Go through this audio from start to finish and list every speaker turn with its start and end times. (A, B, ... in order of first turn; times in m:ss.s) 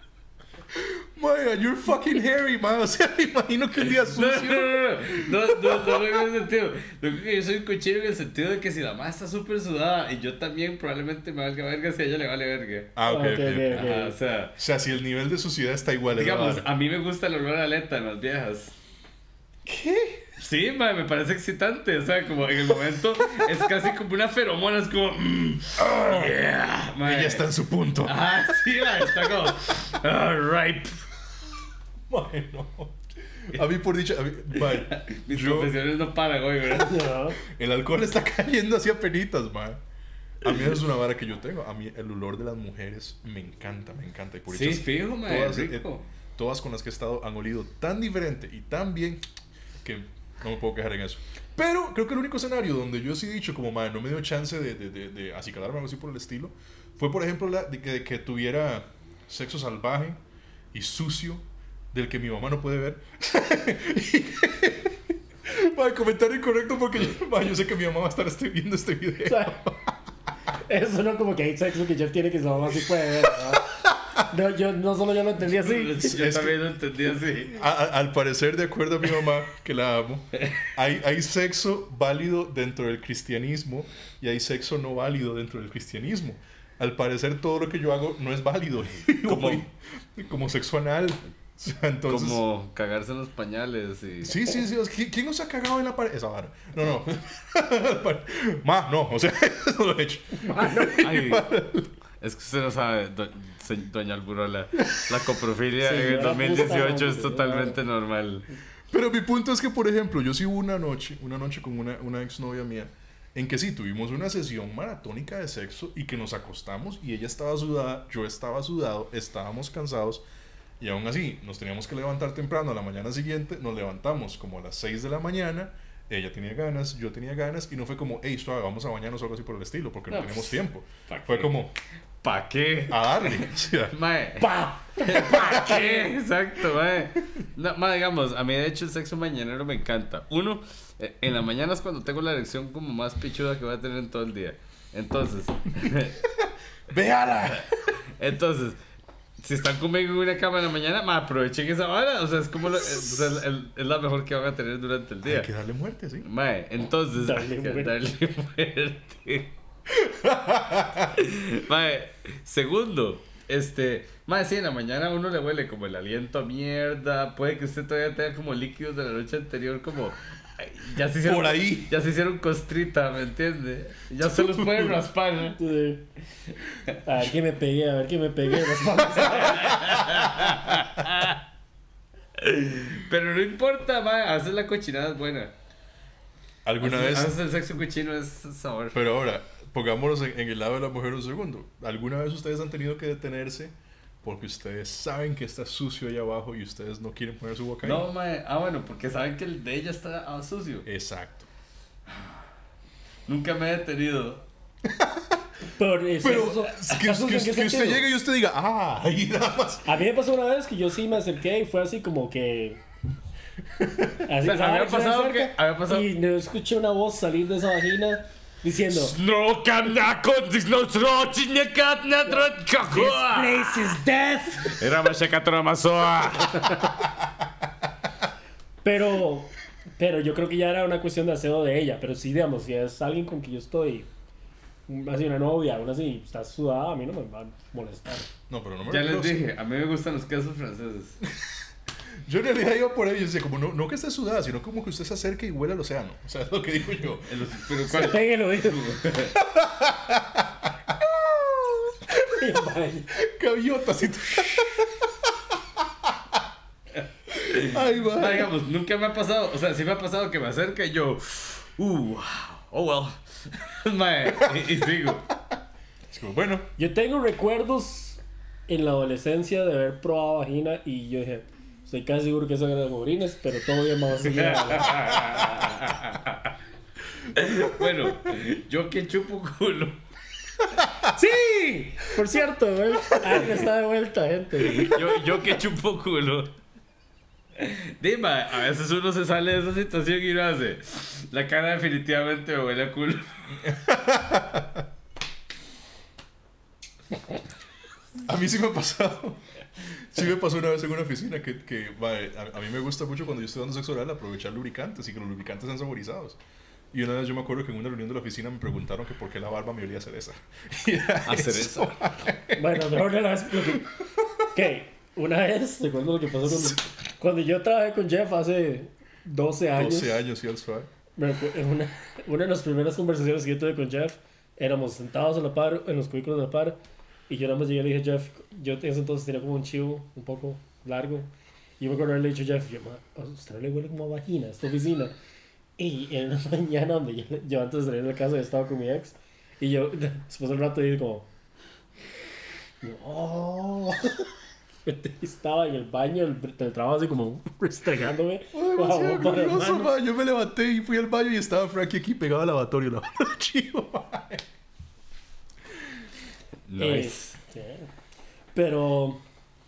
0:00.7-0:06.3 A
0:03.9-0:12.9 B
0:13.0-0:14.0 A
0:13.1-0:14.1 C
0:13.7-0:14.6 B
0:14.6-0:16.6 A
0:16.1-0:18.7 B
0:19.6-0:20.3 A
0:20.4-0:27.4 B
0:27.0-0:28.3 A
0:28.0-0:30.9 B
0:28.9-0:29.7 A
0:32.1-0:35.7 A
0:34.5-0:37.1 B
0:36.7-0:37.4 C
0:36.9-0:39.8 A
0:40.4-0:49.2 A
0:40.4-0:40.8 B
0:44.5-0:46.0 B
0:49.8-1:00.2 A
1:00.7-1:01.4 A
1:01.9-1:09.8 A
1:09.2-1:09.6 C
1:10.6-1:16.2 C
1:15.5-1:17.6 B
1:16.0-1:16.6 A
1:17.5-1:32.4 A
1:20.4-1:20.6 B
1:29.1-1:29.6 B
1:32.1-1:34.4 B
1:34.2-1:41.9 A
1:40.4-1:41.1 C
1:41.0-1:41.5 B
1:42.2-1:48.4 B
1:45.8-1:47.8 C
1:48.9-2:00.2 A
2:00.8-2:11.7 A
2:10.1-2:11.5 B
2:12.2-2:26.2 B
2:12.9-2:13.9 A
2:14.4-2:16.1 C
2:26.2-2:28.0 A
2:28.2-2:28.8 B
2:29.4-2:35.5 B
2:32.6-2:33.4 A
2:35.2-2:36.2 A
2:36.2-2:39.5 B
2:37.2-2:37.9 C
2:39.9-2:41.1 A
2:41.1-2:55.6 B
2:51.2-2:51.9 A
2:54.2-2:55.0 A
2:55.5-2:56.0 C
2:57.0-2:59.8 C
2:59.3-3:01.4 B
2:59.4-3:00.0 A
3:02.4-3:05.5 B
3:06.6-3:07.4 A
3:06.8-3:09.0 B
3:08.9-3:18.1 A
3:17.8-3:20.9 B
3:20.8-3:21.5 A
3:23.3-3:24.4 B
3:24.9-3:25.3 A
3:25.8-3:28.0 C
3:26.2-3:29.9 A
3:29.8-3:32.8 C
3:33.8-3:34.2 A
3:34.2-3:39.2 C
3:34.4-3:36.1 B
3:38.9-3:44.0 B
3:42.3-3:44.8 C
3:44.6-3:46.8 B
3:48.8-3:54.1 C
3:54.9-3:58.3 C
3:58.5-3:59.5 A
3:58.8-4:01.2 B
4:02.2-4:08.2 A
4:07.3-4:09.4 B
4:07.9-4:09.1 C
4:09.3-4:12.4 A
4:12.3-4:13.1 C
4:13.1-4:15.0 A
4:17.5-4:25.2 B
4:17.6-4:18.5 A
4:24.2-4:24.7 A
4:26.1-4:26.7 A
4:26.8-4:35.0 C
4:34.2-4:36.5 B
4:37.2-4:40.0 B
4:41.0-4:45.4 C
4:44.6-4:46.5 B
4:47.6-4:53.5 B
4:53.6-4:54.8 A
4:58.2-4:59.4 A
5:00.0-5:06.4 A
5:06.9-5:13.1 A
5:11.2-5:12.0 B
5:12.5-5:13.9 C
5:14.5-5:20.2 C
5:19.7-5:20.9 A
5:21.2-5:31.3 C
5:31.8-5:35.1 C
5:35.8-5:41.3 C
5:42.8-5:44.2 C
5:44.8-5:49.9 C
5:48.5-5:54.4 A
5:56.7-5:57.3 B
5:56.8-5:57.9 C
5:58.5-5:59.2 C